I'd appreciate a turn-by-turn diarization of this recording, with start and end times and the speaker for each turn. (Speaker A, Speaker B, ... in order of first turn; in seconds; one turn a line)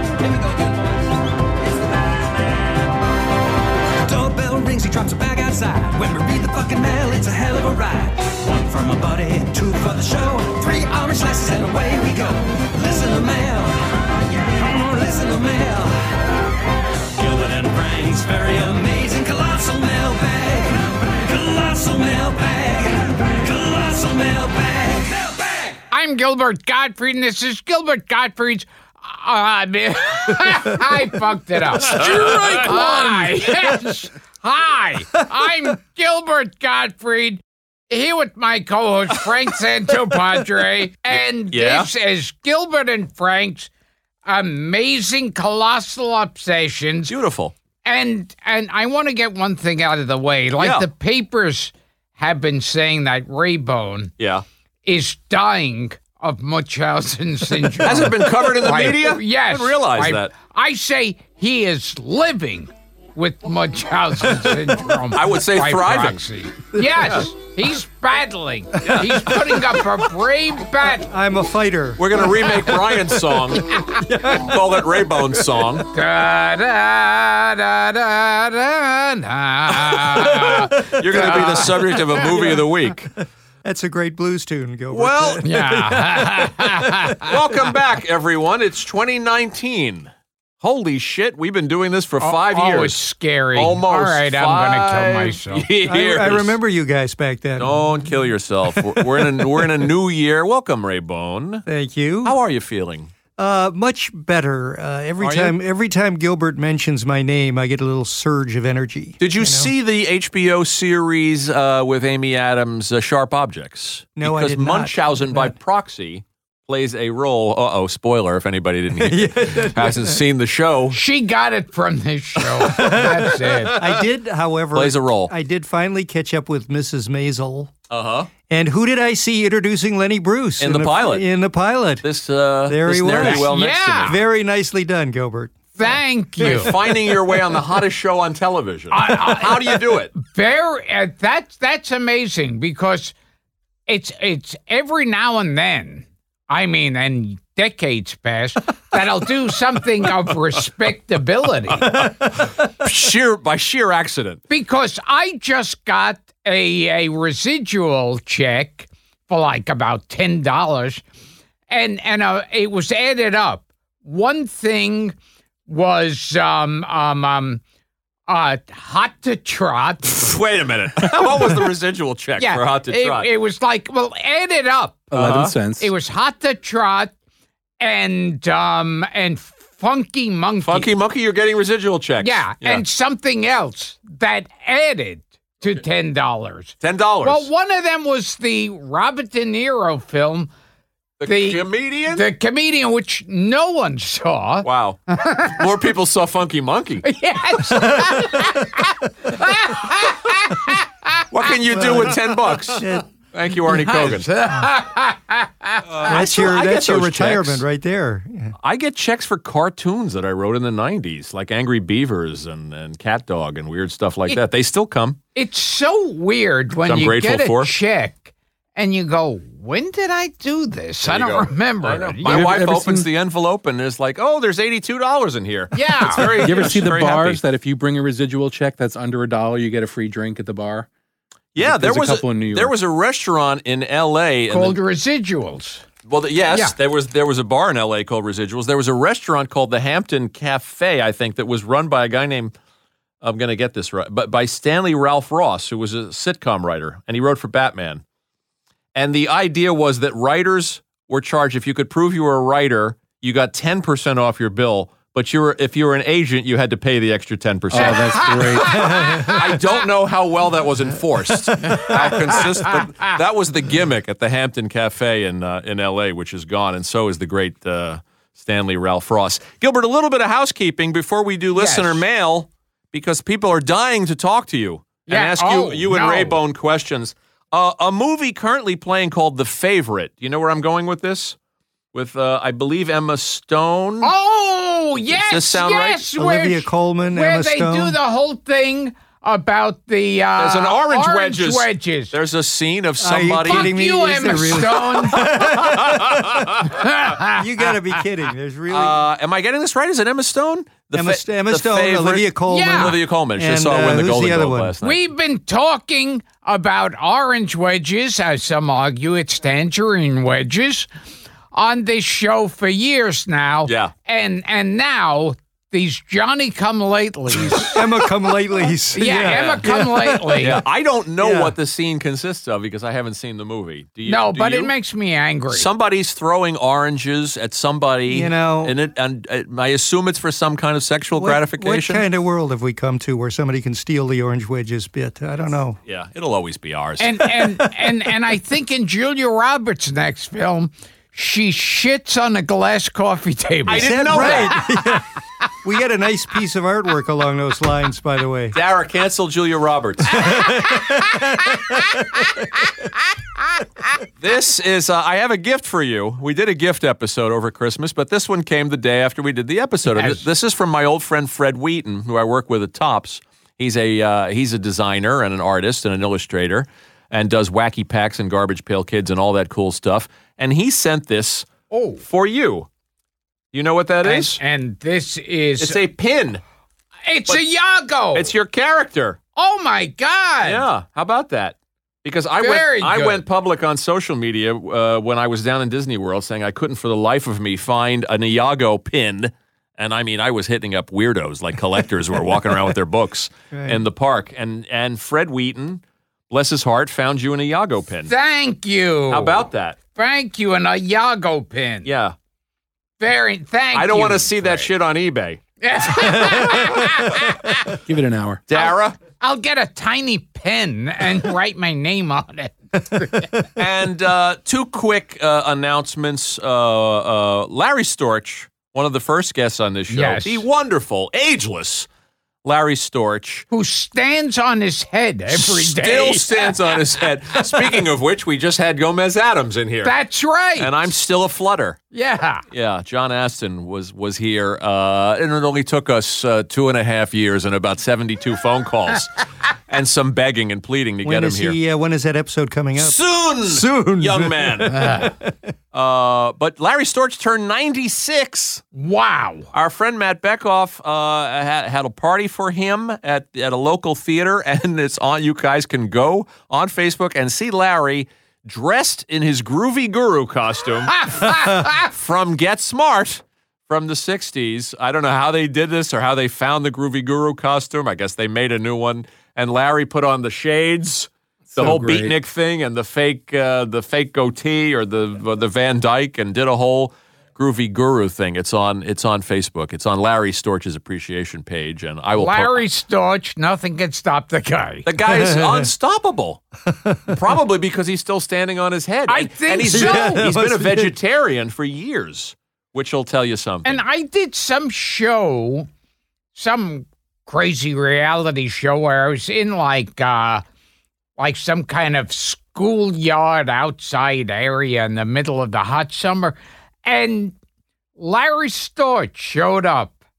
Speaker A: 0.2-0.6
Speaker A: 4.0-16.0
Speaker A: 17.1-25.8
Speaker B: 25.9-43.7
Speaker C: 31.8-32.8
Speaker D: 31.9-33.2
Speaker C: 41.5-41.9
Speaker B: 44.2-47.1
Speaker C: 47.1-47.5
Speaker B: 47.8-54.1
Speaker C: 50.6-50.9
Speaker C: 54.2-54.4
Speaker B: 54.8-71.1
Speaker C: 57.8-60.3
Speaker C: 65.1-66.2
Speaker D: 66.8-67.0
Speaker D: 71.0-73.2
Speaker C: 72.0-75.9
Speaker B: 73.7-74.0
Speaker D: 74.0-75.0
Speaker B: 75.9-82.2
Speaker C: 79.7-83.1
Speaker D: 82.2-87.5
Speaker C: 84.9-85.4
Speaker B: 85.4-87.3
Speaker C: 87.2-93.0
Speaker B: 92.2-95.7
Speaker C: 93.5-96.5
Speaker D: 95.8-97.9
Speaker C: 97.6-101.6
Speaker D: 99.0-99.3
Speaker D: 101.7-102.4
Speaker C: 102.2-103.1
Speaker D: 103.4-109.7
Speaker C: 105.2-105.5
Speaker C: 109.2-121.0
Speaker D: 114.2-115.5
Speaker D: 118.9-120.2
Speaker B: 120.9-123.8
Speaker D: 122.6-127.7
Speaker C: 123.5-123.9
Speaker C: 124.7-125.3
Speaker C: 127.9-128.3
Speaker D: 128.5-132.0
Speaker C: 130.6-131.2
Speaker C: 132.0-134.2
Speaker D: 132.7-133.5
Speaker B: 133.2-134.2
Speaker D: 134.0-135.8
Speaker B: 135.8-136.7
Speaker C: 136.4-140.1
Speaker D: 136.4-136.8
Speaker B: 138.9-143.1
Speaker B: 143.9-152.0
Speaker C: 151.8-154.4
Speaker B: 154.5-161.0
Speaker B: 161.7-165.2
Speaker B: 165.7-167.6
Speaker B: 168.3-170.3
Speaker C: 170.0-173.3
Speaker B: 172.4-175.1
Speaker E: 175.1-175.9
Speaker C: 175.1-175.5
Speaker B: 175.7-177.1
Speaker B: 177.8-180.9
Speaker C: 180.6-182.8
Speaker B: 182.2-190.5
Speaker C: 186.8-187.5
Speaker C: 191.2-192.3
Speaker B: 191.2-195.6
Speaker C: 194.6-197.0
Speaker B: 197.0-201.2
Speaker D: 197.7-198.6
Speaker C: 201.3-204.3
Speaker D: 201.7-203.1
Speaker B: 203.7-206.2
Speaker C: 205.9-207.6
Speaker D: 206.0-208.5
Speaker C: 208.6-215.2
Speaker B: 215.3-222.5
Speaker C: 216.8-217.7
Speaker C: 221.0-227.4
Speaker E: 222.2-223.1
Speaker B: 225.7-226.4
Speaker E: 226.2-230.9
Speaker C: 231.5-234.8
Speaker E: 231.6-232.7
Speaker B: 234.5-235.8
Speaker C: 236.1-242.5
Speaker C: 243.2-248.0
Speaker C: 248.9-281.4
Speaker E: 257.7-258.9
Speaker B: 257.7-259.8
Speaker D: 259.0-259.3
Speaker D: 261.6-262.1
Speaker B: 261.7-262.8
Speaker B: 271.5-272.0
Speaker B: 275.1-276.4
Speaker C: 281.9-284.1
Speaker B: 284.0-292.1
Speaker C: 285.1-286.0
Speaker D: 286.1-288.0
Speaker C: 290.4-293.7
Speaker D: 293.0-299.0
Speaker B: 293.5-295.5
Speaker C: 294.3-296.7
Speaker B: 296.6-297.7
Speaker C: 298.7-305.0
Speaker D: 300.9-304.7
Speaker B: 302.5-303.0
Speaker B: 304.8-310.9
Speaker B: 311.5-317.8
Speaker C: 313.6-313.9
Speaker D: 317.6-320.6
Speaker B: 318.9-320.6
Speaker C: 319.3-319.6
Speaker C: 320.4-324.7
Speaker D: 321.2-321.5
Speaker B: 324.1-325.7
Speaker C: 325.5-332.0
Speaker D: 328.1-328.8
Speaker D: 331.1-335.8
Speaker C: 335.9-337.3
Speaker B: 337.0-345.0
Speaker C: 343.7-344.6
Speaker D: 343.7-345.0
Speaker D: 345.6-348.6
Speaker C: 348.5-350.3
Speaker D: 350.1-352.5
Speaker C: 354.2-371.5
Speaker B: 359.9-360.2
Speaker B: 371.7-372.0
Speaker C: 372.0-372.7
Speaker C: 373.5-374.4
Speaker B: 374.0-375.8
Speaker C: 375.6-376.4
Speaker B: 377.1-378.3
Speaker C: 378.1-379.2
Speaker B: 379.4-380.6
Speaker C: 380.4-398.1
Speaker B: 382.4-383.2
Speaker D: 393.5-393.8
Speaker B: 398.1-401.9
Speaker C: 399.1-399.8
Speaker C: 401.8-402.1
Speaker B: 403.0-404.7
Speaker C: 403.7-405.4
Speaker B: 405.6-407.7
Speaker E: 407.8-408.4
Speaker C: 408.5-409.0
Speaker B: 408.6-413.5
Speaker C: 413.6-421.9
Speaker B: 419.9-420.4
Speaker C: 422.4-423.5
Speaker B: 423.5-427.8
Speaker C: 425.3-429.9
Speaker B: 429.8-430.7
Speaker C: 430.6-431.8
Speaker B: 431.9-432.4
Speaker C: 432.5-439.1
Speaker C: 439.7-441.6
Speaker D: 441.0-445.3
Speaker C: 442.8-444.8
Speaker B: 444.7-445.1
Speaker C: 445.7-448.6
Speaker B: 448.7-449.5
Speaker C: 449.5-482.6
Speaker B: 461.0-461.8
Speaker E: 471.5-472.1
Speaker B: 482.1-484.9
Speaker C: 484.8-486.4
Speaker D: 485.1-485.7
Speaker D: 486.7-487.1
Speaker C: 487.1-493.8
Speaker B: 489.1-490.2
Speaker D: 489.7-490.9
Speaker B: 493.6-495.7
Speaker B: 496.3-500.4
Speaker B: 501.2-507.3
Speaker B: 508.0-509.9